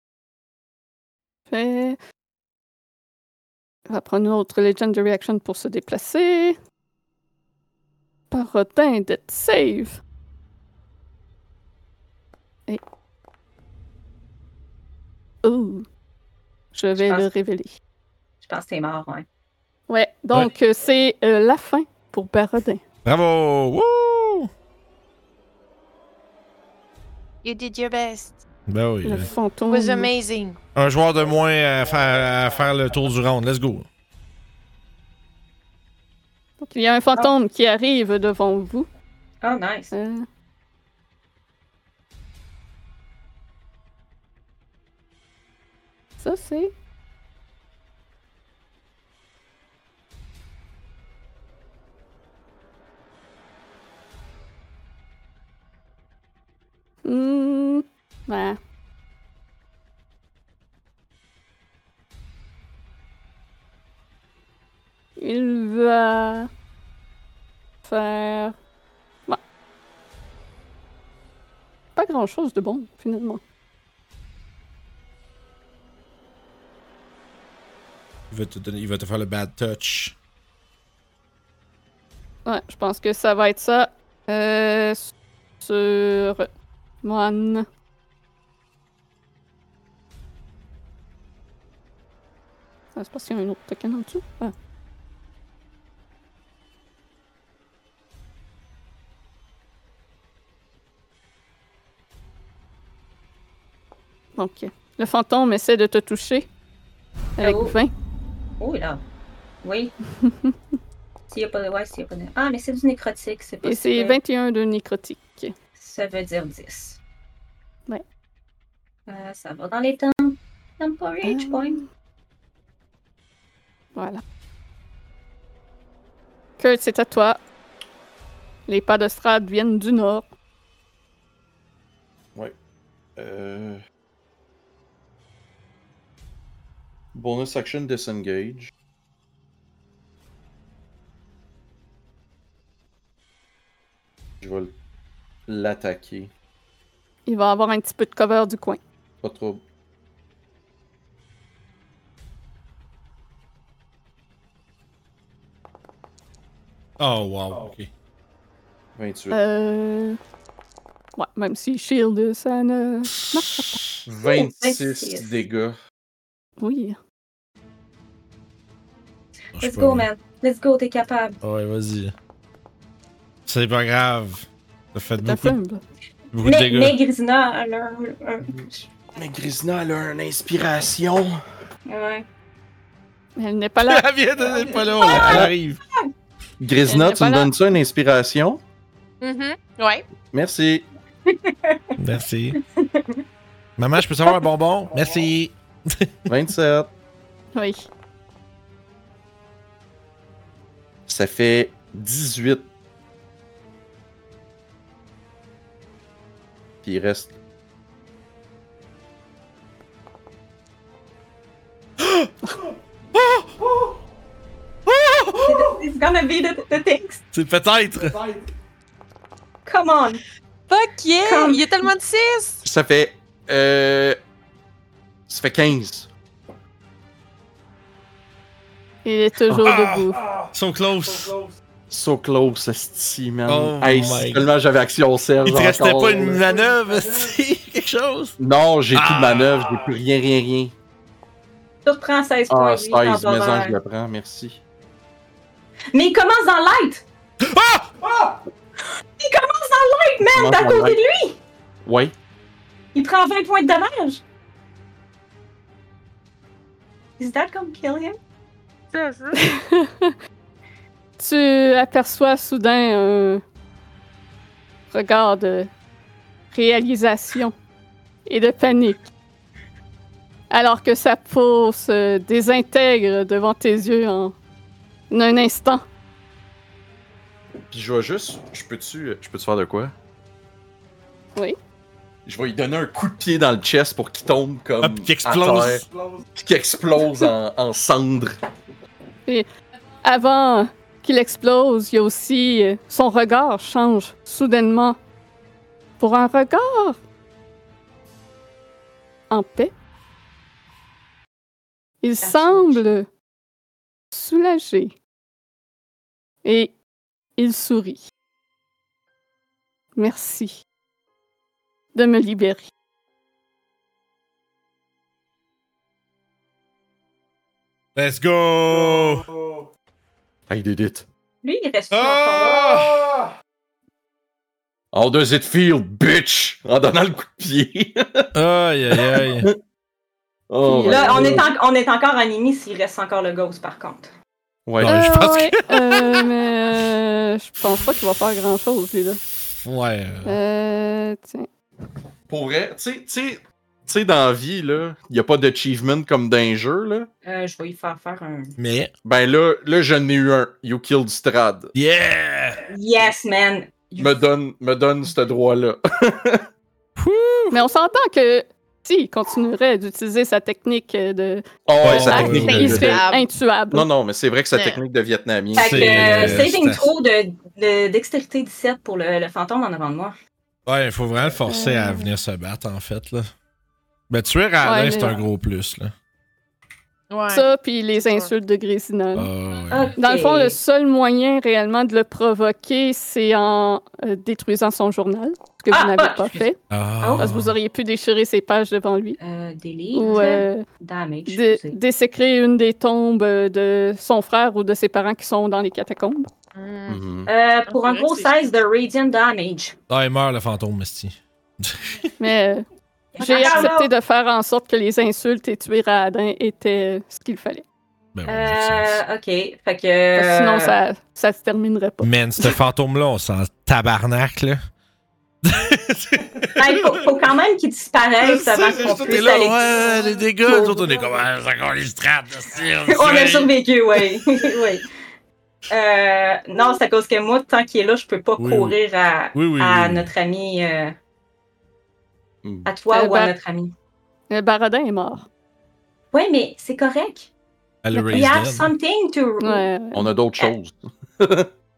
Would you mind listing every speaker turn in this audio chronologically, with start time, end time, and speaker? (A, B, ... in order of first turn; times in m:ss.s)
0:01.5-0:02.0 A
0:03.9-0:06.6 A
0:08.3-0:10.0 A
0:15.4-0:15.8 A
0:16.7-0:17.7 A
0:17.0-0:17.3 B
0:18.4-0:19.2 B
0:19.9-0:22.8 A
0:23.0-0:24.5 C
0:27.4-0:28.4 D
0:28.7-0:29.3 C
0:29.0-0:30.1 A
0:29.7-0:30.6 D
0:30.7-0:33.9 C
0:36.6-0:38.9 A
0:39.4-0:39.9 B
0:39.9-0:40.2 A
0:46.2-0:46.7 A
0:57.0-0:58.6 A
1:05.2-1:06.5 A
1:07.8-1:08.5 A
1:12.0-1:13.4 A
1:18.3-1:20.1 C
1:22.4-1:26.5 A
1:27.0-1:27.6 A
1:32.9-1:34.5 A
1:44.4-1:46.5 A
1:47.4-1:47.7 B
1:47.4-1:47.9 A
1:48.6-1:49.0 B
1:49.6-1:49.9 B
1:50.2-1:50.6 A
1:51.3-1:54.2 B
1:53.6-1:55.5 A
1:55.8-1:57.0 B
1:59.1-2:01.8 B
2:01.2-2:01.8 A
2:03.9-2:04.2 A
2:06.6-2:07.4 A
2:08.7-2:10.2 A
2:13.2-2:13.8 E
2:17.1-2:18.7 E
2:24.4-2:24.7 E
2:25.5-2:26.3 E
2:27.3-2:28.8 A
2:29.2-2:29.6 E
2:37.0-2:37.9 C
2:39.0-2:39.4 E
2:39.3-2:40.2 A
2:41.2-2:43.8 A
2:44.0-2:45.8 E
2:44.2-2:45.4 B
2:46.6-2:47.0 A
2:49.6-2:50.1 C
2:49.6-2:51.4 B
2:51.4-2:52.1 C
2:53.5-2:55.6 C
2:55.2-2:55.8 A
2:56.3-2:57.0 C
2:56.4-2:58.9 B
2:59.1-3:01.4 E
3:01.9-3:02.2 B
3:03.4-3:04.0 A
3:03.8-3:05.8 C
3:05.0-3:06.1 B
3:05.1-3:05.5 E
3:06.6-3:08.6 E
3:06.8-3:07.5 A
3:09.2-3:10.0 D
3:10.3-3:10.8 E
3:11.3-3:11.9 B
3:12.0-3:12.6 C
3:12.6-3:13.2 B
3:13.8-3:16.1 C
3:16.3-3:16.9 E
3:17.5-3:17.9 A
3:21.1-3:22.6 E
3:26.8-3:27.3 E
3:32.0-3:32.3 C
3:33.1-3:33.7 C
3:34.8-3:35.7 C
3:35.4-3:37.2 B
3:37.3-3:38.3 C
3:39.6-3:40.2 B
3:40.7-3:42.6 D
3:41.2-3:41.7 B
3:42.6-3:44.2 E
3:45.3-3:46.1 E
3:49.0-3:50.2 A
3:49.5-3:51.4 C
3:51.9-3:56.4 E
3:53.5-3:54.5 C
3:55.4-3:58.4 C
3:58.4-4:00.7 E
3:58.9-3:59.8 C
4:01.8-4:03.8 B
4:02.5-4:04.6 E
4:05.9-4:07.0 B
4:07.4-4:07.9 C
4:09.2-4:11.4 B
4:10.2-4:11.0 E
4:11.8-4:12.1 E
4:12.9-4:14.2 B
4:17.2-4:18.2 B
4:18.9-4:19.4 D
4:19.4-4:20.1 A
4:21.2-4:23.4 A
4:24.9-4:25.7 A
4:26.5-4:27.5 A
4:28.3-4:29.0 A
4:30.5-4:34.3 A
4:35.1-4:35.8 A
4:37.7-4:39.9 E
4:42.2-4:48.4 E
4:44.8-4:45.8 C
4:50.0-4:55.0 A
4:56.0-4:57.0 A
4:59.3-4:59.7 A
5:02.0-5:03.1 A
5:02.2-5:02.8 B
5:04.1-5:05.0 A
5:06.4-5:06.7 A
5:07.4-5:08.0 A
5:10.0-5:10.6 A
5:11.9-5:12.7 A
5:17.9-5:19.2 C
5:20.5-5:21.0 E
5:21.4-5:22.7 B
5:21.9-5:23.2 C
5:24.9-5:28.3 E
5:28.3-5:29.5 C
5:28.9-5:29.6 E
5:30.5-5:31.5 E
5:30.6-5:31.4 A
5:30.8-5:34.1 B
5:34.7-5:35.0 E
5:34.8-5:36.2 C
5:34.8-5:39.2 A
5:39.6-5:40.4 C
5:40.2-5:41.5 A
5:42.3-5:47.1 E
5:47.2-5:48.6 B
5:48.6-5:48.9 C
5:49.0-5:51.7 E
5:51.7-5:52.6 C
5:52.7-5:54.2 B
5:54.0-5:56.4 E
5:57.0-5:57.6 C
5:57.5-6:01.4 A
6:01.6-6:03.0 E
6:01.8-6:02.9 C
6:01.9-6:03.2 D
6:02.1-6:03.9 A
6:03.7-6:06.5 E
6:04.5-6:04.8 D
6:05.5-6:10.1 B
6:05.6-6:06.9 C
6:10.6-6:13.3 C
6:11.5-6:12.1 A
6:14.1-6:15.9 C
6:14.6-6:15.2 A
6:17.1-6:18.3 D
6:17.3-6:19.3 A
6:19.1-6:19.9 C
6:19.7-6:20.6 B
6:20.0-6:26.6 A
6:25.7-6:26.5 B
6:26.7-6:27.6 C
6:27.0-6:27.3 B
6:27.2-6:29.2 A
6:29.2-6:31.8 B
6:29.9-6:30.6 A
6:30.0-6:30.4 D
6:31.3-6:36.3 A
6:36.5-6:37.0 D
6:36.9-6:37.3 E
6:37.3-6:39.7 B
6:37.7-6:38.5 D
6:39.9-6:42.0 C
6:42.2-6:42.6 A
6:43.1-6:43.9 B
6:43.2-6:47.6 A
6:43.4-6:43.7 D
6:48.1-6:49.0 C
6:48.3-6:50.8 B
6:50.2-6:52.5 A
6:52.0-6:54.6 C
6:55.4-6:57.1 C
6:56.6-6:59.8 B
6:58.2-7:03.5 C
7:00.4-7:00.8 B
7:02.9-7:04.8 B
7:05.7-7:11.0 B
7:08.4-7:08.8 C
7:09.3-7:10.1 C
7:12.4-7:12.7 E
7:12.6-7:13.7 B
7:12.9-7:13.3 A
7:14.3-7:15.2 A
7:16.1-7:17.3 B
7:17.8-7:18.7 C
7:18.0-7:19.7 B
7:19.4-7:20.1 A
7:19.9-7:21.5 E